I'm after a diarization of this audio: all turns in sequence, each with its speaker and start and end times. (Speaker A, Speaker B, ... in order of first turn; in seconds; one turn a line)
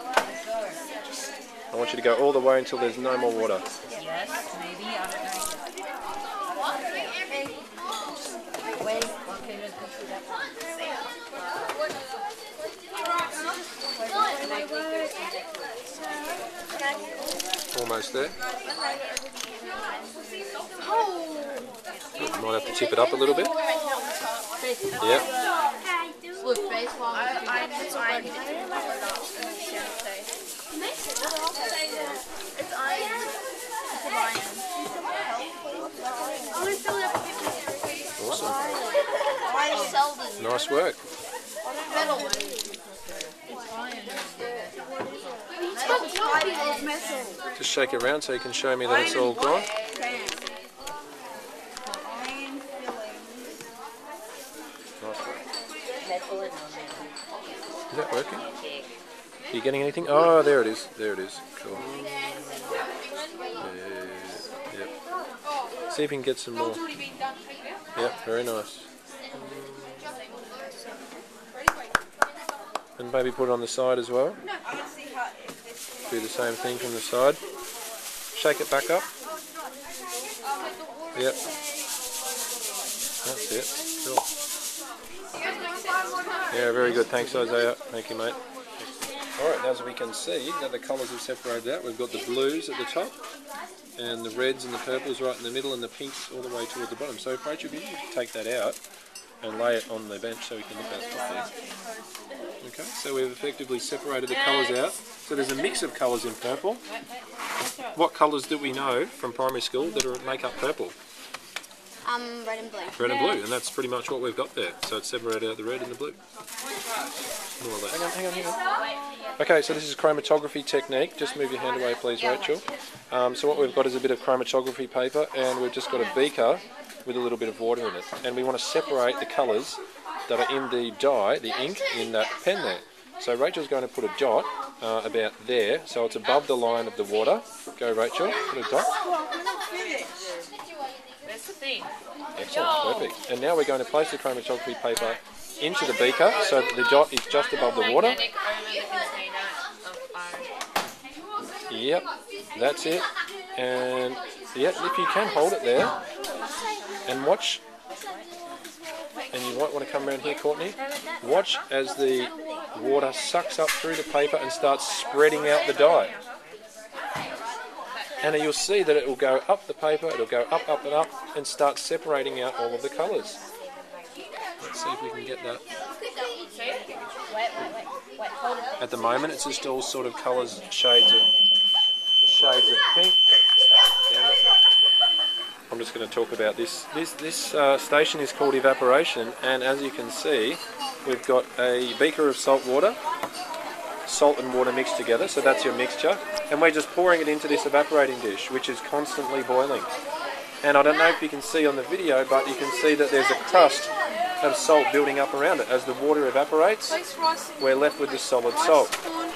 Speaker A: 1.7-3.7
Speaker B: 4.8-5.2
Speaker A: 17.7-18.4
Speaker C: 21.2-21.6
Speaker A: 22.2-23.6
Speaker C: 23.6-24.4
Speaker A: 25.0-25.3
Speaker C: 26.4-30.3
Speaker C: 32.5-33.3
Speaker C: 33.9-34.6
Speaker C: 35.3-35.6
Speaker C: 36.3-37.2
Speaker A: 38.2-38.6
Speaker C: 39.7-40.2
Speaker A: 40.4-41.0
Speaker C: 41.9-42.8
Speaker A: 47.5-49.7
Speaker A: 55.0-55.4
Speaker A: 57.9-58.5
Speaker A: 59.5-61.8
Speaker A: 63.6-64.9
Speaker A: 65.9-66.8
Speaker A: 68.0-70.1
Speaker A: 73.0-74.4
Speaker A: 76.1-77.4
Speaker A: 78.3-79.1
Speaker A: 83.2-84.2
Speaker A: 86.5-93.2
Speaker A: 94.0-98.8
Speaker A: 99.4-101.5
Speaker A: 102.6-106.8
Speaker A: 107.9-110.9
Speaker C: 112.0-113.3
Speaker A: 113.0-116.2
Speaker A: 117.6-118.6
Speaker A: 119.4-138.9
Speaker B: 139.8-140.5
Speaker B: 141.2-141.9
Speaker A: 142.3-148.2
Speaker B: 147.6-150.5
Speaker A: 151.7-156.0
Speaker A: 157.1-157.6
Speaker A: 159.3-166.1
Speaker A: 168.2-173.4
Speaker A: 174.6-175.6
Speaker A: 178.8-181.2
Speaker A: 182.2-183.2
Speaker A: 184.1-184.4
Speaker A: 185.7-193.0
Speaker A: 194.1-199.9
Speaker A: 200.6-207.0
Speaker A: 207.6-208.9